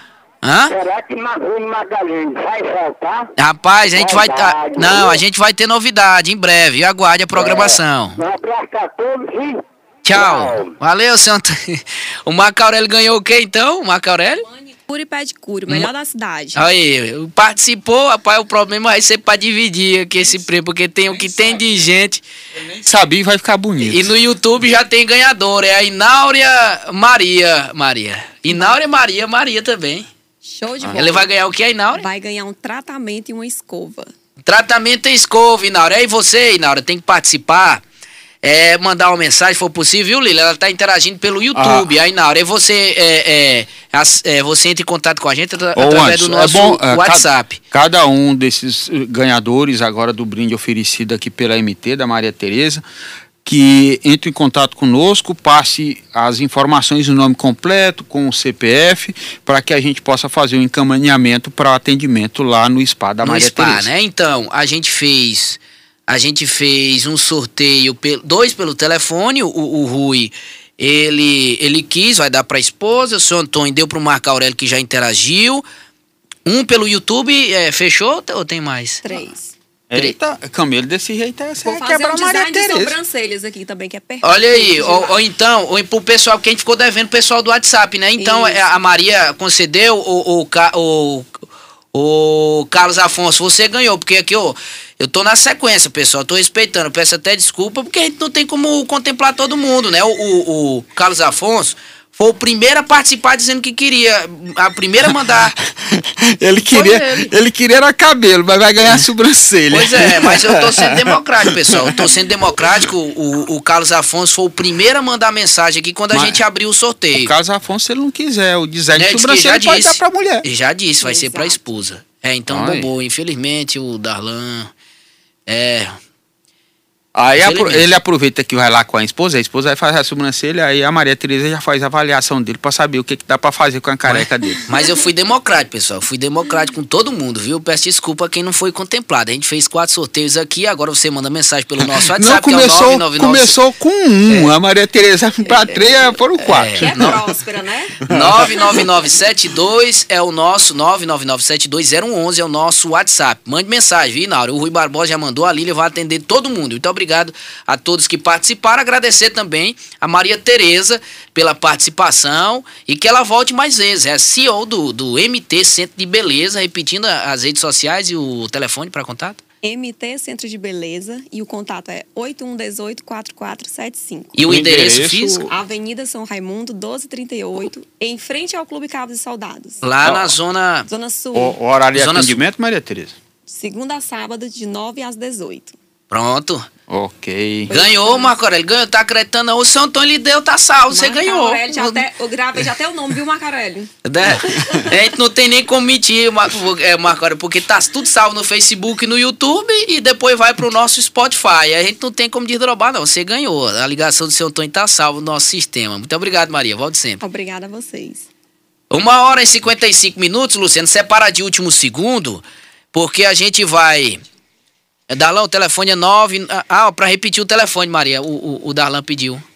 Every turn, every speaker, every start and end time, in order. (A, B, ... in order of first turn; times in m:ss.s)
0:00.4-0:00.7 A
0:00.7-0:03.3 B
0:03.4-0:08.2 A
0:03.9-0:05.2 B
0:07.3-0:10.7 B
0:10.0-0:14.5 A
0:14.4-0:16.6 C
0:16.5-0:22.2 A
0:21.1-0:21.8 D
0:22.5-0:24.1 D
0:23.8-0:30.1 A
0:28.5-0:28.8 C
0:30.4-0:31.3 C
0:30.9-0:32.0 A
0:31.9-0:34.1 C
0:34.4-0:37.8 A
0:38.4-0:47.6 A
0:41.5-0:41.9 D
0:45.8-0:52.8 D
0:53.4-1:03.9 D
1:03.2-1:15.6 A
1:16.4-1:19.0 A
1:19.0-1:19.5 C
1:19.9-1:22.9 D
1:21.6-1:25.2 C
1:24.2-1:31.4 A
1:28.2-1:28.6 C
1:31.9-1:45.6 A
1:45.7-1:52.9 D
1:46.6-1:47.3 A
1:49.7-1:57.3 A
1:56.1-1:56.4 D
1:57.2-2:00.4 D
1:58.9-2:04.7 A
2:01.0-2:01.6 C
2:02.5-2:02.9 D
2:05.5-2:06.0 A
2:07.1-2:14.7 D
2:07.4-2:07.9 A
2:14.0-2:23.6 A
2:21.9-2:27.2 D
2:24.3-2:24.5 A
2:26.4-2:27.1 A
2:26.8-2:28.0 C
2:28.0-2:28.8 D
2:28.1-2:49.4 A
2:49.6-2:54.4 C
2:54.4-2:55.5 A
2:54.4-2:55.5 D
2:55.5-2:59.8 C
2:59.8-3:00.9 A
3:00.0-3:00.3 D
3:00.9-3:01.6 C
3:01.3-3:03.2 D
3:01.9-3:02.4 A
3:03.5-3:05.8 C
3:06.1-3:06.7 A
3:06.9-3:07.7 D
3:07.7-3:08.3 C
3:07.7-3:12.0 A
3:10.9-3:13.9 C
3:14.0-3:27.2 A
3:14.4-3:14.8 D
3:14.4-3:14.9 C
3:27.2-3:28.3 C
3:28.9-3:34.2 A
3:35.1-3:39.4 A